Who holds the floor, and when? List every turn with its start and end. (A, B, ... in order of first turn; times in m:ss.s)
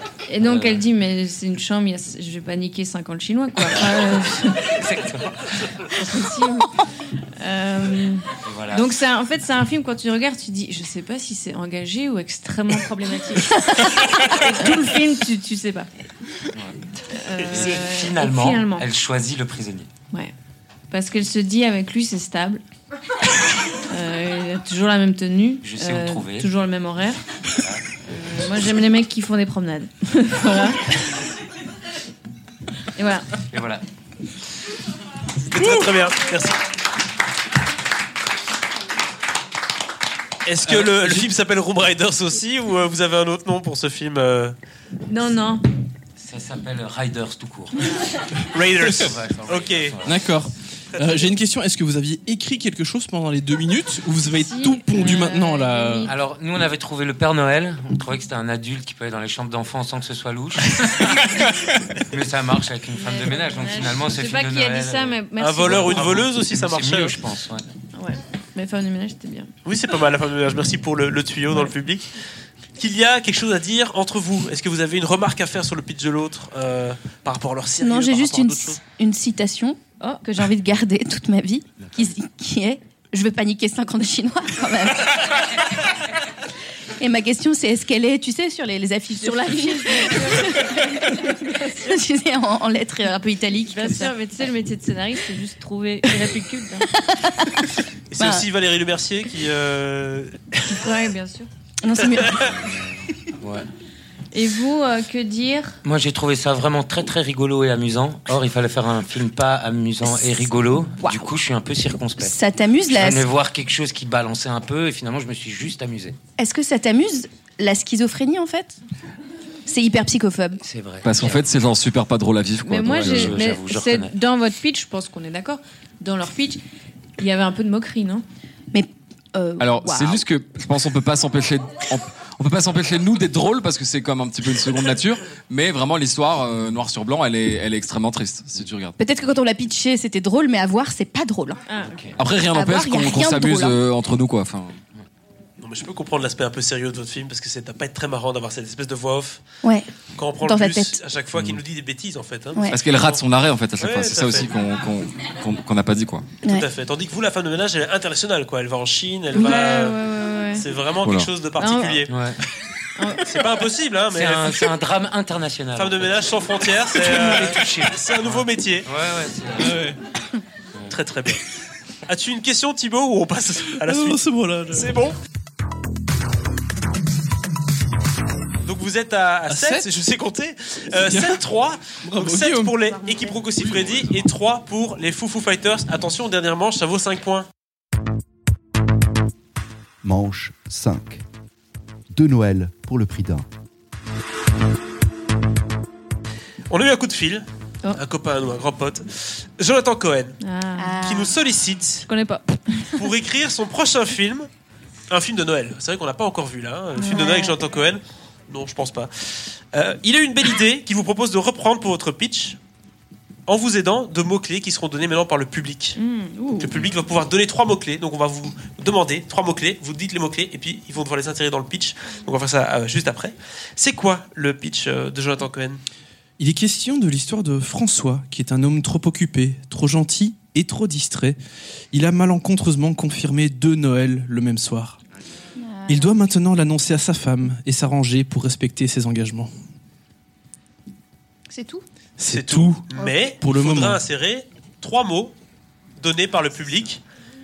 0:00.3-0:04.8 A
0:00.4-0:00.8 B
0:04.7-0:05.6 B
0:05.8-0:15.9 A
0:08.4-0:08.9 B
0:16.5-0:16.8 B
0:17.1-0:18.9 A
0:17.5-0:19.9 B
0:20.9-0:22.6 A
0:23.9-0:27.2 A
0:25.6-0:26.5 B
0:27.6-0:27.8 B
0:28.0-0:31.1 A
0:33.0-0:33.3 A
0:33.5-0:33.8 B
0:35.4-0:36.6 C
0:40.5-0:44.6 C
0:40.6-0:41.3 D
0:45.1-0:45.7 A
0:46.2-0:48.1 B
0:48.5-0:50.0 C
0:48.6-0:50.2 B
0:50.0-0:56.1 D
0:50.9-0:51.3 C
0:54.4-0:56.1 A
0:56.1-1:01.5 B
1:02.0-1:07.7 B
1:03.0-1:06.2 A
1:05.4-1:07.2 C
1:07.9-1:09.5 A
1:09.6-1:12.1 C
1:12.8-1:18.8 C
1:17.8-1:25.5 E
1:27.0-1:34.1 E
1:29.2-1:32.0 A
1:33.7-1:36.9 A
1:36.9-1:38.4 E
1:38.1-1:40.7 C
1:40.7-1:41.5 A
1:41.8-1:42.5 E
1:42.4-1:43.7 B
1:44.3-1:45.8 A
1:45.8-1:52.4 B
1:51.0-1:51.3 E
1:52.2-1:53.2 E
1:52.9-1:56.2 B
1:56.4-1:58.8 E
1:59.7-2:00.6 E
2:00.6-2:01.4 B
2:01.0-2:03.4 F
2:02.6-2:06.6 A
2:02.9-2:04.1 B
2:07.2-2:08.2 A
2:08.7-2:10.2 E
2:09.6-2:19.0 F
2:19.0-2:21.6 E
2:21.7-2:22.0 A
2:21.8-2:22.2 B
2:22.2-2:24.8 F
2:22.5-2:23.8 E
2:25.6-2:29.4 C
2:30.2-2:33.2 C
2:30.4-2:31.0 E
2:31.4-2:31.6 F
2:32.7-2:36.3 F
2:33.8-2:34.5 C
2:36.5-2:40.0 C
2:39.3-2:40.7 A
2:40.5-2:42.1 C
2:41.0-2:41.3 F
2:41.6-2:42.1 A
2:42.1-2:42.4 B
2:43.0-2:43.3 A
2:43.2-2:44.7 C
2:44.1-2:49.8 B
2:45.8-2:48.9 C
2:49.6-2:50.0 D
2:50.9-2:51.4 C
2:52.1-2:55.2 C
2:53.8-2:54.9 D
2:58.6-3:07.5 C
2:59.5-2:59.9 D
3:01.1-3:01.4 D
3:02.0-3:02.8 D
3:02.9-3:03.4 E
3:03.7-3:04.2 F
3:10.0-3:11.2 G
3:12.1-3:13.5 G
3:16.7-3:20.4 C
3:20.4-3:21.0 A
3:20.8-3:21.4 E
3:21.0-3:22.0 C
3:22.1-3:23.0 A
3:23.0-3:24.5 C
3:25.1-3:32.6 C
3:27.0-3:27.6 E
3:33.5-3:36.0 C
3:36.0-3:36.8 A
3:36.6-3:45.8 C
3:46.4-3:51.4 D
3:51.9-3:55.0 D
3:55.6-3:56.2 E
3:55.9-3:59.5 D
4:01.5-4:01.8 E
4:02.2-4:02.9 D
4:02.2-4:05.4 C
4:03.4-4:04.0 D
4:06.0-4:07.0 C